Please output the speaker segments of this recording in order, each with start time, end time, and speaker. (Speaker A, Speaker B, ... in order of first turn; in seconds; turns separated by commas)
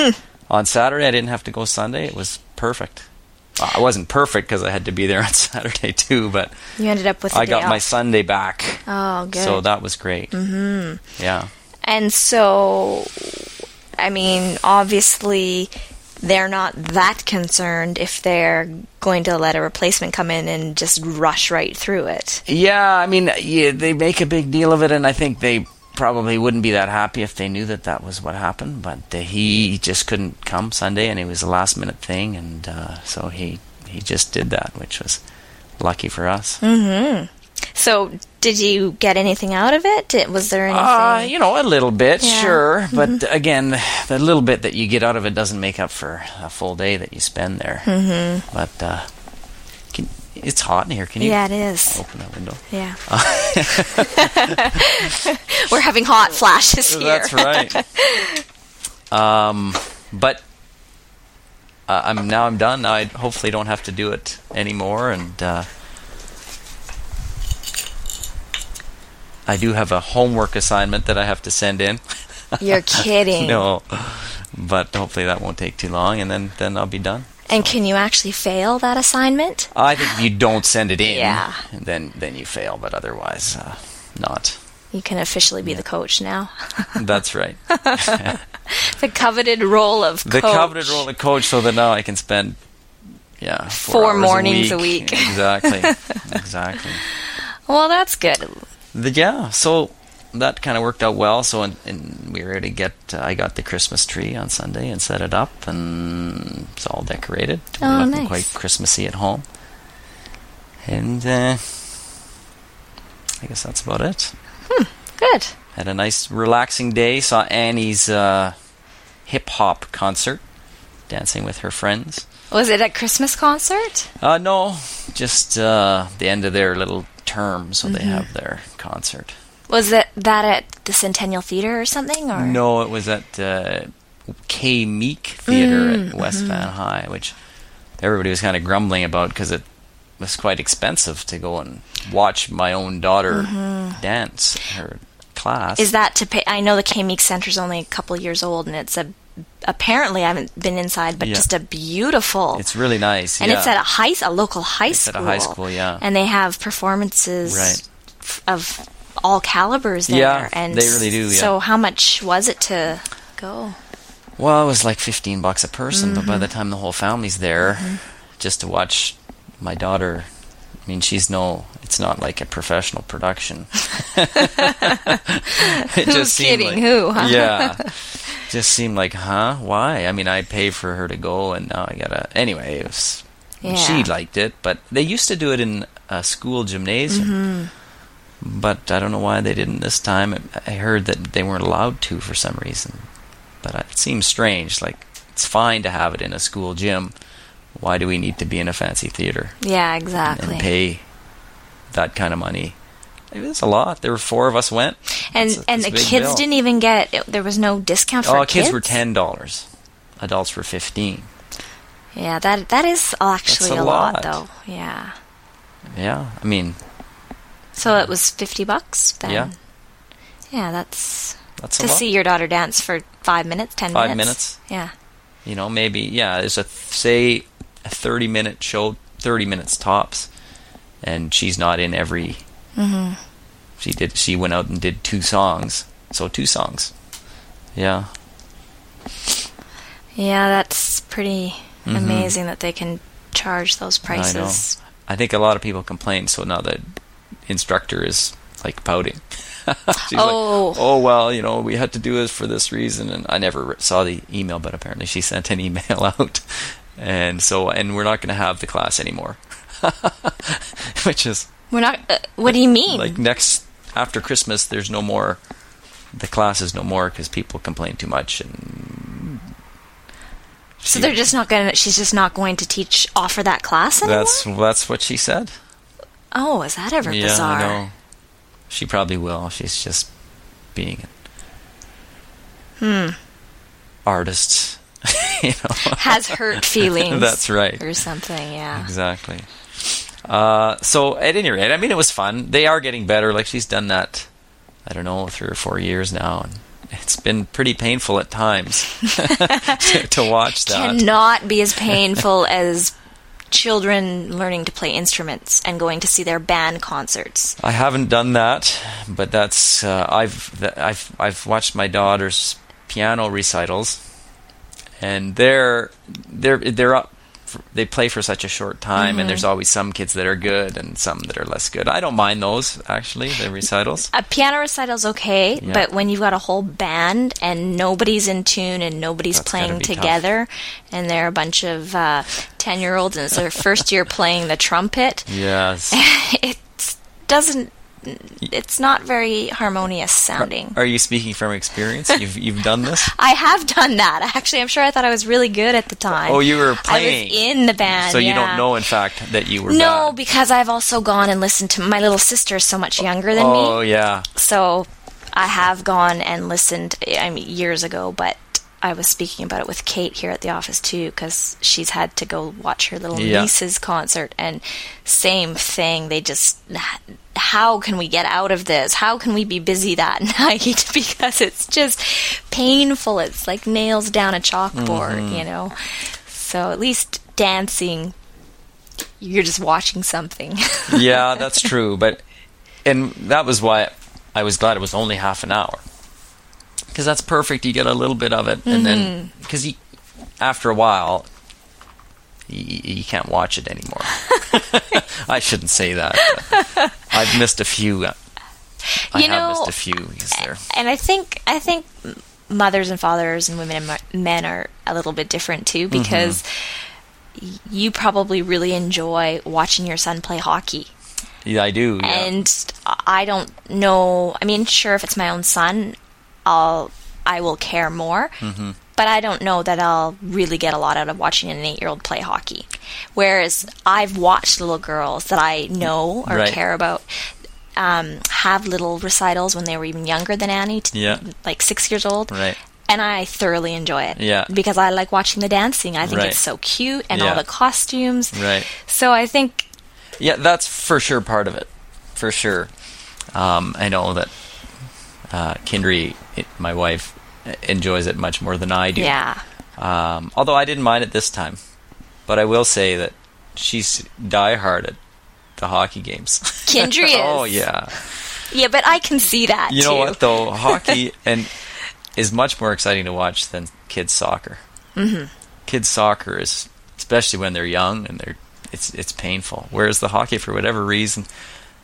Speaker A: 0.5-6.5, Speaker B: 6.8-7.9, Speaker A: 7.3-8.8, Speaker B: 8.8-9.6, Speaker A: 9.3-10.3, Speaker B: 10.3-11.1, Speaker A: 11.2-11.5, Speaker B: 11.8-22.4, Speaker A: 22.4-35.2, Speaker A: 35.8-36.6, Speaker B: 36.6-41.3, Speaker A: 40.7-47.9, Speaker B: 42.2-43.2, Speaker B: 47.9-48.5, Speaker A: 48.5-49.1, Speaker A: 49.9-54.7, Speaker B: 51.2-52.0, Speaker B: 52.7-58.4, Speaker A: 56.8-57.8, Speaker A: 59.1-60.4, Speaker A: 61.9-65.7, Speaker A: 69.5-77.7, Speaker B: 72.6-73.6, Speaker B: 77.5-80.2, Speaker A: 79.7-84.6, Speaker B: 81.0-81.6, Speaker B: 84.9-87.0, Speaker A: 86.9-88.4, Speaker B: 87.7-91.0, Speaker A: 90.2-92.6, Speaker A: 93.4-97.0, Speaker B: 93.7-96.3, Speaker B: 97.0-98.6, Speaker A: 98.9-109.4, Speaker B: 107.8-108.4, Speaker A: 110.8-111.8, Speaker A: 113.4-114.3, Speaker B: 114.7-115.5, Speaker A: 115.7-118.5, Speaker A: 119.2-120.4, Speaker A: 121.1-122.2, Speaker B: 122.5-124.1, Speaker A: 124.2-129.3, Speaker B: 127.8-128.3, Speaker B: 129.7-132.6, Speaker A: 132.3-133.9, Speaker A: 134.4-137.3, Speaker B: 135.5-136.7, Speaker A: 138.0-139.6, Speaker A: 140.2-145.9, Speaker B: 143.3-144.0, Speaker B: 145.8-152.6, Speaker A: 151.2-151.5, Speaker A: 152.5-153.8, Speaker B: 153.4-163.8, Speaker A: 154.9-156.0, Speaker A: 157.4-157.8, Speaker A: 160.1-161.5, Speaker A: 164.4-170.3, Speaker B: 165.9-166.5, Speaker B: 167.6-168.0, Speaker A: 170.9-187.3, Speaker B: 174.4-177.9, Speaker B: 183.6-184.1, Speaker B: 187.1-187.7, Speaker A: 188.4-193.1, Speaker A: 193.6-197.1, Speaker A: 197.7-199.5, Speaker B: 199.6-200.7, Speaker A: 200.2-201.0, Speaker A: 201.9-202.8, Speaker A: 203.3-206.4, Speaker B: 205.3-209.0, Speaker A: 208.2-209.7, Speaker A: 210.2-211.3, Speaker B: 212.1-215.1, Speaker A: 213.5-214.4, Speaker A: 215.9-216.8, Speaker B: 217.8-219.5, Speaker A: 219.2-219.5, Speaker B: 220.5-224.9, Speaker A: 221.6-222.0, Speaker A: 223.9-224.6, Speaker A: 225.4-230.3, Speaker A: 231.0-232.4, Speaker B: 232.8-233.2, Speaker A: 233.8-236.9, Speaker A: 237.8-238.1, Speaker B: 240.2-244.8, Speaker A: 241.8-242.3, Speaker A: 244.1-246.8, Speaker A: 247.5-261.5, Speaker B: 250.0-250.8, Speaker B: 261.7-263.2, Speaker A: 262.5-265.4, Speaker A: 266.1-269.4, Speaker A: 270.8-271.2, Speaker B: 270.9-274.4, Speaker A: 274.0-275.5, Speaker B: 276.3-277.8, Speaker A: 277.0-277.9, Speaker A: 278.7-280.1, Speaker A: 280.7-281.1, Speaker B: 282.8-283.2, Speaker A: 284.1-287.9, Speaker B: 285.9-288.9, Speaker A: 288.7-294.3, Speaker A: 294.9-301.0, Speaker B: 299.1-302.9, Speaker B: 303.5-307.6, Speaker A: 307.6-314.0, Speaker A: 315.0-324.1, Speaker B: 318.9-319.5, Speaker B: 324.1-335.3, Speaker A: 325.6-325.9, Speaker A: 329.3-330.2, Speaker A: 335.3-336.0, Speaker B: 335.9-340.8, Speaker A: 340.4-343.1, Speaker B: 342.8-348.7, Speaker A: 346.1-350.1, Speaker B: 349.6-353.8, Speaker A: 353.3-354.3, Speaker B: 354.3-378.1, Speaker A: 363.1-363.5, Speaker A: 374.7-375.4, Speaker B: 379.2-381.6, Speaker A: 380.9-382.2, Speaker A: 382.8-385.8, Speaker A: 386.9-389.8, Speaker B: 388.6-389.3, Speaker A: 390.4-391.3, Speaker A: 392.5-398.1, Speaker B: 396.2-396.9, Speaker B: 399.1-399.7, Speaker A: 399.1-400.6, Speaker B: 400.4-406.5, Speaker A: 405.9-406.4, Speaker B: 407.3-410.9, Speaker A: 411.4-412.3, Speaker B: 412.0-418.4, Speaker A: 418.4-418.8, Speaker B: 418.9-427.1, Speaker A: 425.8-426.6, Speaker B: 427.8-432.4, Speaker A: 430.9-431.2, Speaker A: 432.3-432.6, Speaker B: 432.9-439.7, Speaker A: 434.1-434.5, Speaker A: 436.0-436.4, Speaker A: 437.1-437.4, Speaker A: 438.3-438.7, Speaker A: 440.2-442.7, Speaker A: 443.3-444.3, Speaker A: 445.3-449.1, Speaker B: 448.9-449.4, Speaker A: 449.8-451.6, Speaker A: 452.3-455.0, Speaker A: 455.6-458.1, Speaker B: 456.6-457.6, Speaker B: 458.5-461.0, Speaker A: 459.7-461.5, Speaker A: 462.1-464.6, Speaker B: 464.9-465.3, Speaker A: 465.7-471.3